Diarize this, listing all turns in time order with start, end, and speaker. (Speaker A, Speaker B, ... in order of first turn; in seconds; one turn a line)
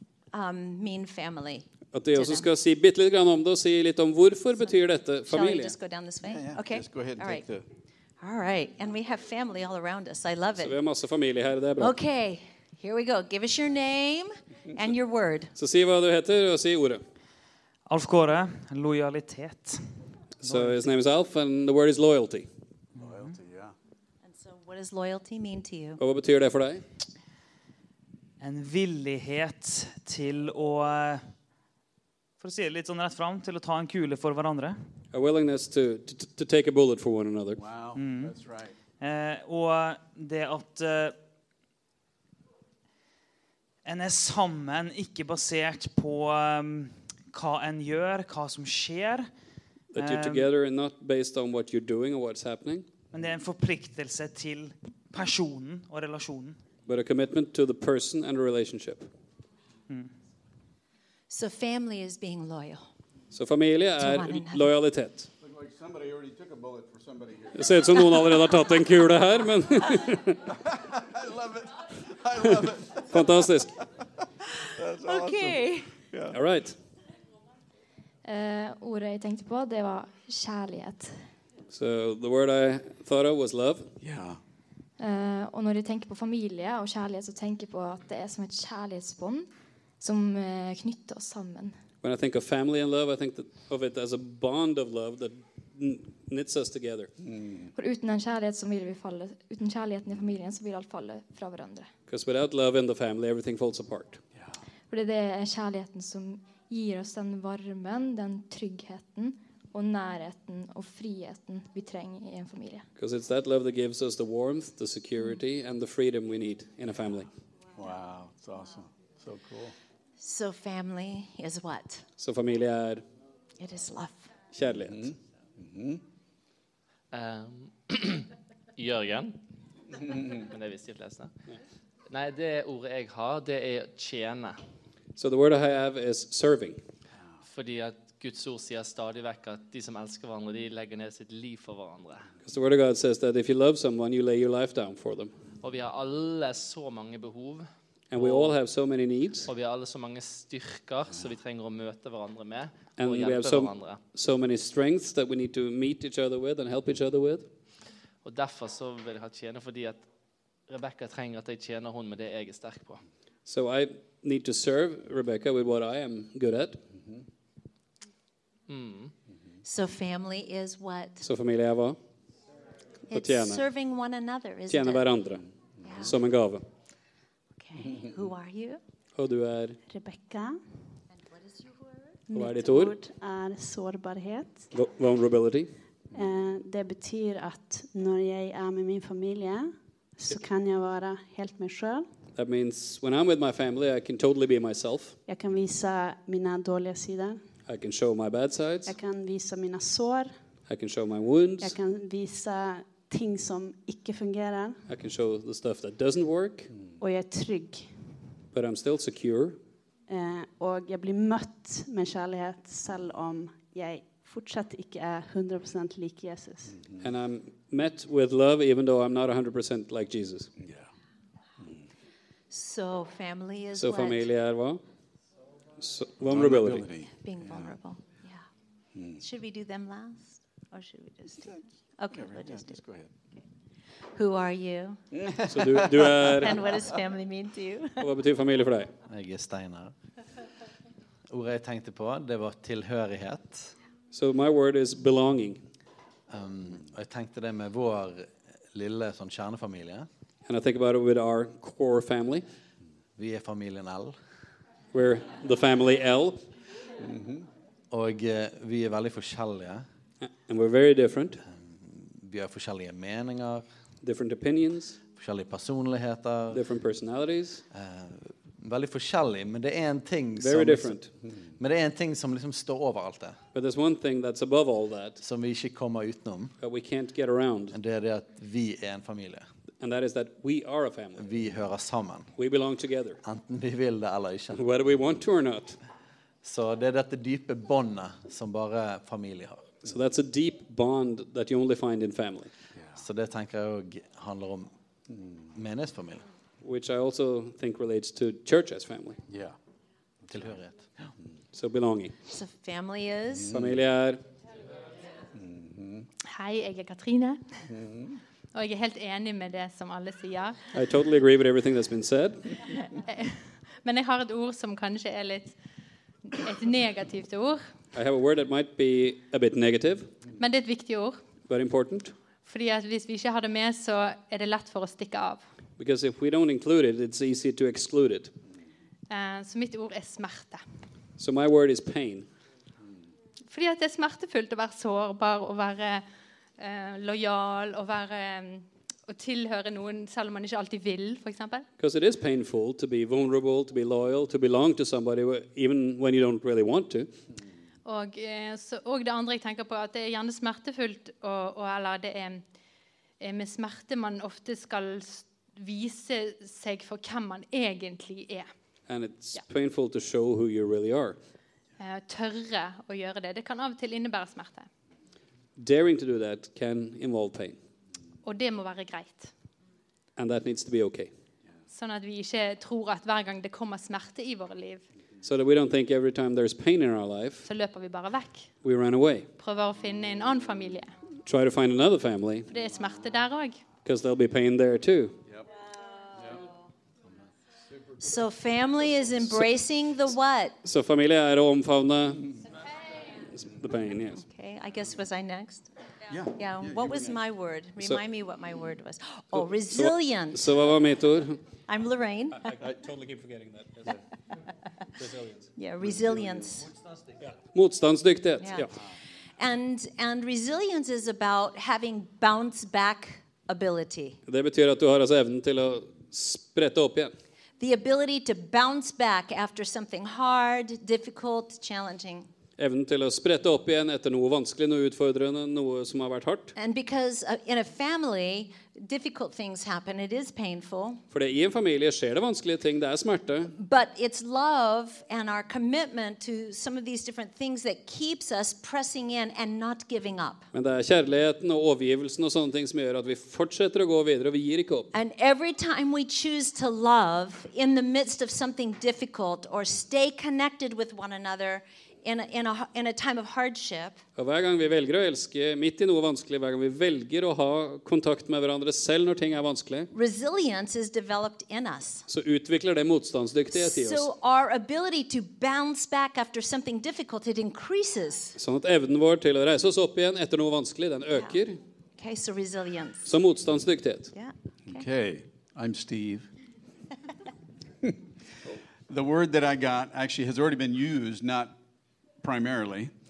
Speaker A: 0.3-2.5
Speaker B: 1.9-5.8
Speaker A: 5.3-7.5
Speaker C: 6.2-7.7
Speaker A: 8.2-10.8
Speaker B: 10.6-11.9
Speaker A: 11.8-15.5
Speaker B: 15.6-17.0
Speaker D: 17.9-20.0
Speaker B: 20.4-22.5
Speaker C: 23.0-23.7
Speaker A: 24.2-26.0
Speaker B: 26.0-26.8
Speaker D: 28.4-31.3
Speaker D: 32.4-34.8
Speaker B: 35.1-37.6
Speaker C: 37.6-38.7
Speaker D: 38.0-38.4
Speaker D: 39.0-41.2
Speaker D: 43.8-49.3
Speaker B: 50.0-52.9
Speaker D: 50.0-50.5
Speaker D: 53.1-56.6
Speaker B: 56.9-59.1
Speaker A: 61.3-62.9
Speaker B: 63.3-65.3
Speaker A: 64.0-64.7
Speaker C: 65.4-68.0
Speaker B: 67.6-70.4
Speaker C: 70.7-73.3
Speaker B: 73.1-73.7
Speaker C: 74.8-75.6
Speaker A: 75.0-75.9
Speaker C: 76.1-76.4
Speaker B: 76.3-76.8
Speaker E: 78.2-81.2
Speaker B: 81.7-83.9
Speaker C: 84.0-84.4
Speaker E: 85.0-89.5
Speaker E: 90.0-91.8
Speaker B: 92.0-97.1
Speaker C: 97.2-97.7
Speaker E: 97.8-101.9
Speaker B: 102.1-104.2
Speaker E: 104.9-112.9
Speaker B: 113.0-117.3
Speaker C: 117.8-119.7
Speaker A: 120.2-122.0
Speaker B: 122.2-123.0
Speaker A: 123.6-124.3
Speaker B: 124.5-125.1
Speaker C: 124.9-126.0
Speaker F: 127.1-129.4
Speaker F: 130.4-131.3
Speaker F: 132.1-134.6
Speaker B: 135.2-136.8
Speaker F: 137.4-142.3
Speaker B: 142.4-145.3
Speaker F: 145.6-148.5
Speaker B: 148.1-149.5
Speaker F: 149.5-154.0
Speaker B: 153.0-157.5
Speaker F: 158.2-160.1
Speaker F: 160.7-163.0
Speaker B: 163.5-166.8
Speaker F: 168.7-169.1
Speaker A: 169.6-171.2
Speaker B: 171.2-172.0
Speaker A: 173.1-175.0
Speaker B: 173.1-173.6
Speaker B: 174.7-175.4
Speaker A: 175.8-176.1
Speaker B: 176.0-176.6
Speaker A: 177.6-178.8
Speaker B: 179.2-179.8
Speaker G: 179.9-180.6
Speaker A: 181.1-182.1
Speaker G: 182.3-184.7
Speaker B: 182.3-183.0
Speaker B: 184.7-185.7
Speaker G: 186.1-192.1
Speaker B: 192.4-195.2
Speaker G: 195.3-197.4
Speaker B: 197.7-198.9
Speaker G: 198.9-200.3
Speaker B: 200.7-201.8
Speaker G: 201.6-204.8
Speaker B: 204.9-206.7
Speaker G: 207.0-207.9
Speaker B: 208.5-209.6
Speaker G: 210.1-216.8
Speaker B: 217.0-220.5
Speaker A: 222.5-224.3
Speaker B: 223.8-224.8
Speaker B: 225.8-226.9
Speaker C: 226.3-227.2
Speaker A: 227.2-228.4
Speaker A: 229.2-232.8
Speaker C: 232.1-233.1
Speaker A: 234.2-235.0
Speaker C: 235.3-236.1
Speaker B: 235.5-236.6
Speaker A: 236.3-238.0
Speaker B: 238.0-238.9
Speaker H: 239.1-239.9
Speaker H: 241.3-243.7
Speaker B: 244.1-245.6
Speaker H: 246.3-250.1
Speaker B: 250.5-252.4
Speaker H: 253.2-254.2
Speaker B: 254.9-256.4
Speaker C: 257.0-257.4
Speaker H: 257.9-259.9
Speaker B: 260.2-261.4
Speaker H: 261.4-263.6
Speaker B: 264.0-265.0
Speaker H: 265.2-266.6
Speaker B: 266.5-267.6
Speaker H: 267.7-271.0
Speaker B: 270.4-271.1
Speaker H: 271.6-273.4
Speaker B: 273.6-275.2
Speaker H: 275.2-276.5
Speaker B: 276.6-277.8
Speaker H: 277.7-279.5
Speaker B: 279.8-281.2
Speaker H: 281.2-282.3
Speaker B: 282.4-283.2
Speaker H: 283.2-284.6
Speaker B: 284.6-285.8
Speaker H: 286.4-289.8
Speaker B: 289.8-292.5
Speaker H: 292.9-294.7
Speaker H: 295.5-296.2
Speaker B: 296.6-299.2
Speaker H: 300.3-301.1
Speaker B: 301.5-302.1
Speaker A: 302.3-303.5
Speaker B: 303.5-304.2
Speaker C: 305.5-306.1
Speaker I: 306.3-307.7
Speaker C: 307.8-308.1
Speaker I: 308.5-310.7
Speaker B: 310.7-312.6
Speaker I: 313.0-315.6
Speaker I: 316.3-317.7
Speaker B: 317.9-320.1
Speaker I: 320.4-321.2
Speaker B: 321.5-322.1
Speaker I: 322.4-325.4
Speaker B: 325.8-328.3
Speaker I: 329.1-330.6
Speaker B: 331.2-332.3
Speaker I: 333.5-336.1
Speaker I: 336.6-341.7
Speaker B: 341.8-347.1
Speaker I: 347.9-352.4
Speaker I: 353.2-358.5
Speaker B: 358.9-361.2
Speaker I: 361.8-364.7
Speaker B: 365.6-367.6
Speaker I: 368.2-369.3
Speaker B: 370.2-371.1
Speaker I: 371.7-374.9
Speaker B: 375.2-377.5
Speaker I: 377.5-378.5
Speaker B: 378.6-379.3
Speaker I: 379.4-380.9
Speaker B: 381.2-382.5
Speaker I: 382.5-383.6
Speaker B: 383.9-385.2
Speaker A: 388.0-390.6
Speaker B: 390.6-392.3
Speaker B: 393.3-394.2
Speaker A: 394.2-395.7
Speaker C: 396.1-397.1
Speaker A: 396.3-400.5
Speaker B: 399.3-401.4
Speaker A: 401.7-402.5
Speaker B: 402.4-404.0
Speaker B: 405.0-405.5
Speaker A: 405.6-406.7
Speaker B: 407.2-408.7
Speaker A: 408.4-408.7
Speaker A: 409.4-414.2
Speaker B: 414.3-417.1
Speaker A: 417.6-422.3
Speaker B: 422.6-426.5
Speaker A: 426.6-431.0
Speaker B: 431.1-433.5
Speaker A: 433.6-440.5
Speaker B: 440.5-444.9
Speaker A: 444.9-454.0
Speaker B: 454.2-459.9
Speaker A: 459.9-462.1
Speaker B: 462.1-464.1
Speaker A: 463.5-468.4
Speaker B: 468.4-471.6
Speaker A: 472.0-473.1
Speaker B: 473.1-474.1
Speaker A: 474.1-474.9
Speaker C: 474.7-476.3
Speaker C: 478.9-481.6
Speaker C: 482.2-482.9